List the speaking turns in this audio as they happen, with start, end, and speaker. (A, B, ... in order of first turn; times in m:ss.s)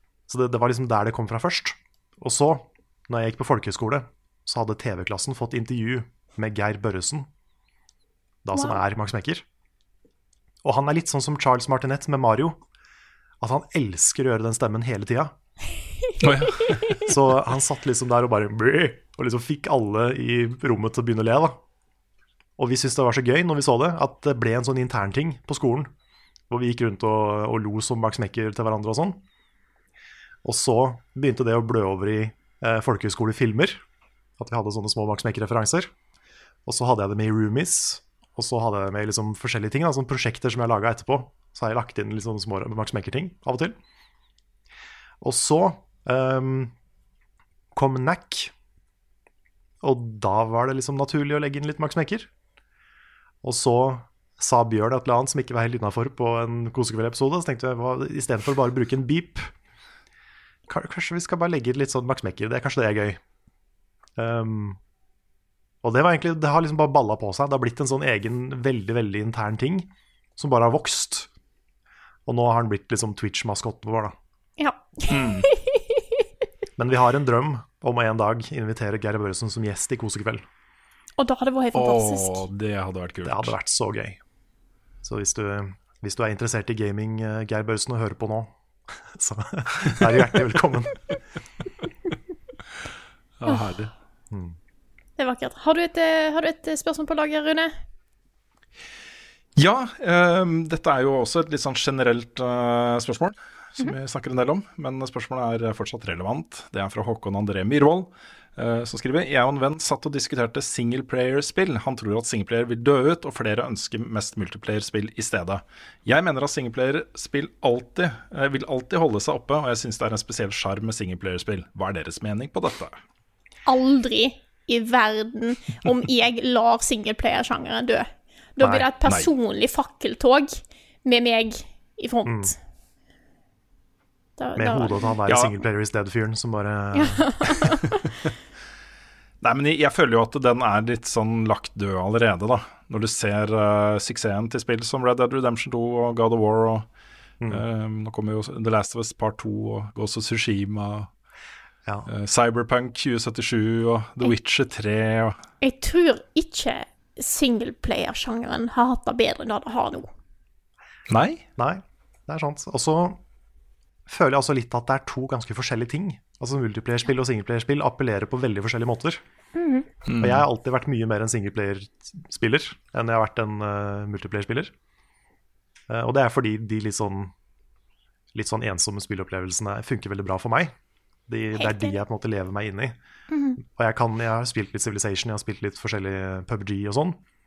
0:00.3-0:07.3 A
0:08.4-0:09.4 A
0:10.6-0:12.6 A
0:13.4-0:15.3 A
0:16.2-0:17.1 B
0:17.0-0:21.6 A
0:22.6-0:25.9 A
0:26.5-0:29.2 A
0:30.4-0:33.8 A
0:34.4-0:35.9 A
0:36.6-0:43.8 A
0:45.2-0:46.7 A
0:47.7-0:48.5 A
0:49.8-0:52.3 A
0:53.4-0:59.5 A
1:00.7-1:03.2 A
1:04.2-1:04.8 A
1:05.8-1:11.3 A
1:12.3-1:14.1 A
1:14.6-1:16.0 C
1:15.1-1:15.5 B
1:16.8-1:20.4 A
1:21.2-1:22.4 C
1:21.7-1:23.6 B
1:23.2-1:24.2 A
1:25.0-1:31.1 A
1:33.4-1:33.9 B
1:34.3-1:34.6 A
1:35.2-1:37.7 C
1:39.6-2:03.0 B
2:03.6-2:12.6 C
2:08.6-2:08.8 A
2:09.0-2:09.3 B
2:12.3-2:12.5 A
2:14.4-2:15.2 C
2:14.6-2:17.3 A
2:15.3-2:15.6 B
2:16.9-2:18.0 C
2:19.4-2:26.9 B
2:27.5-2:31.1 B
2:32.1-2:35.4 B
2:35.6-2:40.1 C
2:41.1-2:41.4 B
2:41.6-2:43.2 A
2:44.1-2:49.2 A
2:49.6-2:49.9 C
2:50.1-2:50.4 B
2:50.2-2:54.7 A
2:55.9-2:57.3 A
2:58.3-3:00.7 A
3:01.3-3:03.0 A
3:01.6-3:02.0 C
3:03.3-3:03.6 C
3:03.6-3:07.2 A